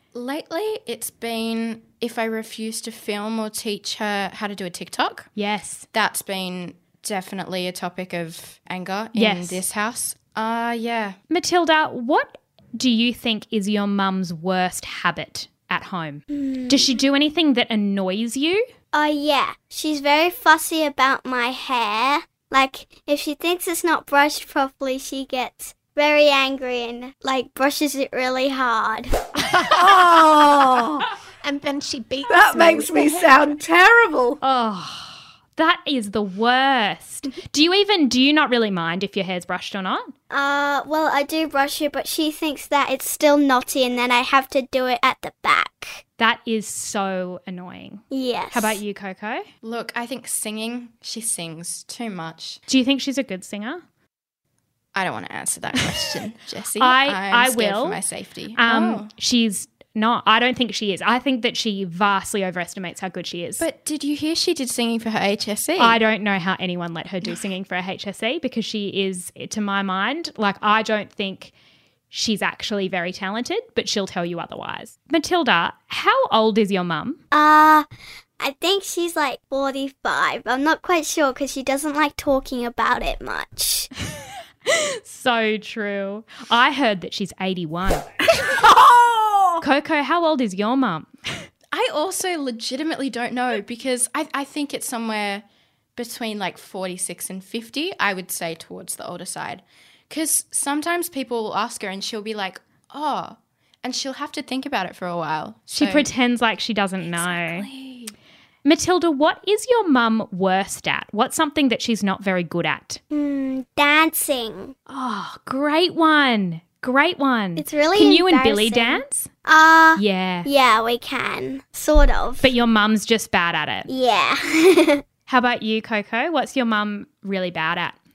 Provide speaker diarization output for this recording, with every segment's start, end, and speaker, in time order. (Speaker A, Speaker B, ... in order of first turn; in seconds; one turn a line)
Speaker A: 0.1-5.3
Speaker B: 5.3-5.8
Speaker A: 5.9-11.2
Speaker B: 9.2-9.6
Speaker B: 11.3-18.6
Speaker C: 16.3-16.9
Speaker C: 18.9-29.5
Speaker D: 29.5-30.1
Speaker E: 29.6-31.1
Speaker D: 31.4-33.3
Speaker E: 32.3-34.4
Speaker B: 34.4-40.1
Speaker C: 40.3-46.0
Speaker B: 46.2-49.4
Speaker C: 48.1-48.8
Speaker A: 49.6-52.6
Speaker B: 52.7-53.8
Speaker A: 54.9-59.1
Speaker B: 56.8-58.0
Speaker B: 58.6-63.6
Speaker A: 63.6-66.0
Speaker B: 65.8-71.5
Speaker B: 72.1-77.2
Speaker C: 77.3-77.9
Speaker C: 78.4-83.9
Speaker B: 84.7-88.5
Speaker E: 88.4-89.6
Speaker B: 89.6-91.5
Speaker A: 91.7-95.4
Speaker A: 96.0-106.1
Speaker B: 105.7-107.7
Speaker A: 107.0-108.1
Speaker B: 108.6-113.0
Speaker C: 113.1-114.7
Speaker B: 114.9-119.3
Speaker C: 117.5-122.5
Speaker B: 120.0-120.5
Speaker B: 122.4-123.9
Speaker C: 123.9-125.0
Speaker B: 125.3-128.0